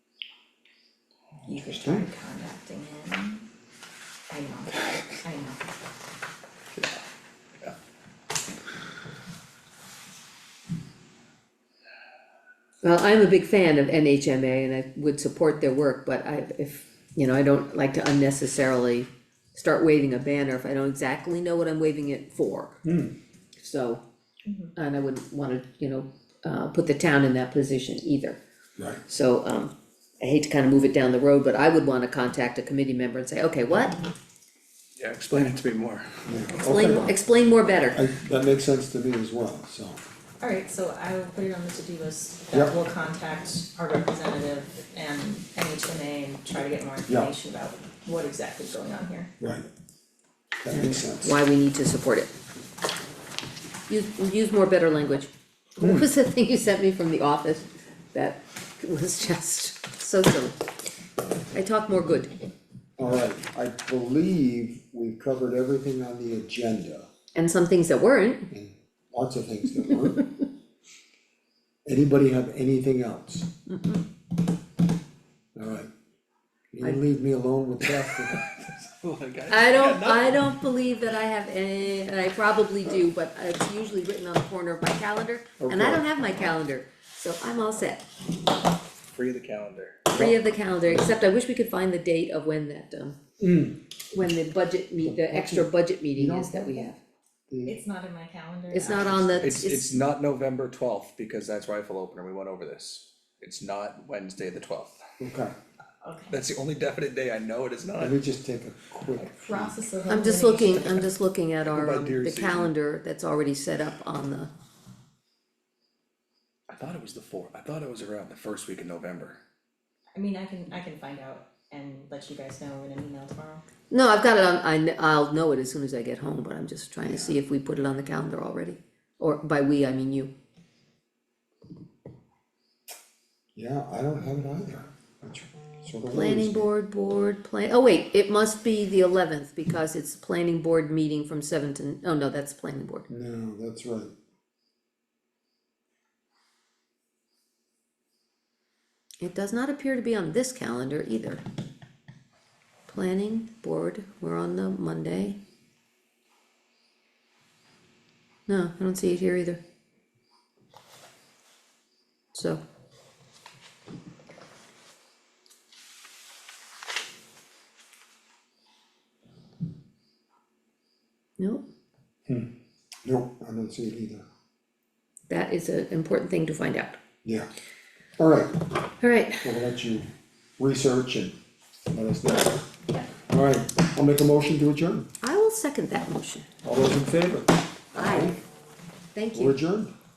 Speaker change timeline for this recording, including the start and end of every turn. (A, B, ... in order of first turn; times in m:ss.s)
0:01.4-0:03.5 A
0:01.6-0:02.0 B
0:04.3-0:05.6 A
0:06.7-0:07.0 C
0:12.8-0:22.8 D
0:22.8-0:23.1 B
0:23.6-0:24.0 D
0:24.4-0:24.7 A
0:24.8-0:28.4 D
0:28.8-0:29.0 B
0:29.1-0:34.0 D
0:35.0-0:36.2 C
0:36.2-0:37.1 B
0:36.6-0:38.0 D
0:37.9-0:40.0 B
0:40.4-0:49.3 A
0:49.4-0:49.7 B
0:50.6-0:51.4 B
0:50.7-0:52.3 D
0:53.9-1:00.6 D
0:55.8-0:56.1 B
1:01.5-1:02.3 D
1:03.0-1:07.1 B
1:07.3-1:08.5 D
1:08.5-1:10.3 B
1:11.8-1:13.5 B
1:13.7-1:14.0 D
1:15.5-1:15.9 B
1:16.7-1:18.4 B
1:18.4-1:20.4 C
1:19.5-1:28.0 D
1:25.6-1:26.1 B
1:29.1-1:30.2 C
1:30.1-1:33.2 D
1:33.4-1:33.8 B
1:34.1-1:37.0 D
1:35.0-1:36.9 B
1:37.5-1:37.8 B
1:37.6-1:39.2 A
1:38.7-1:39.9 D
1:38.9-1:39.3 B
1:39.4-1:45.0 C
1:45.2-1:45.5 B
1:46.0-1:46.4 A
1:46.3-1:48.2 C
1:48.0-1:49.8 B
1:49.2-1:51.1 A
1:50.1-1:54.5 D
1:51.6-1:52.7 C
1:56.7-1:59.4 C
2:00.2-2:03.6 A
2:03.9-2:10.3 D
2:13.5-2:16.7 B
2:16.1-2:23.0 D
2:23.1-2:24.1 B
2:29.2-2:31.4 D
2:32.9-2:35.4 D
2:38.5-2:39.6 D
2:42.3-2:42.6 D
2:53.0-2:54.2 B
2:55.3-2:57.0 D
2:58.2-2:58.7 B
2:59.0-2:59.5 D
2:59.4-3:01.3 B
3:01.9-3:02.6 B
3:03.3-3:05.1 B
3:05.2-3:06.5 D
3:06.6-3:08.4 B
3:07.9-3:08.4 D
3:09.1-3:09.6 D
3:09.3-3:09.9 B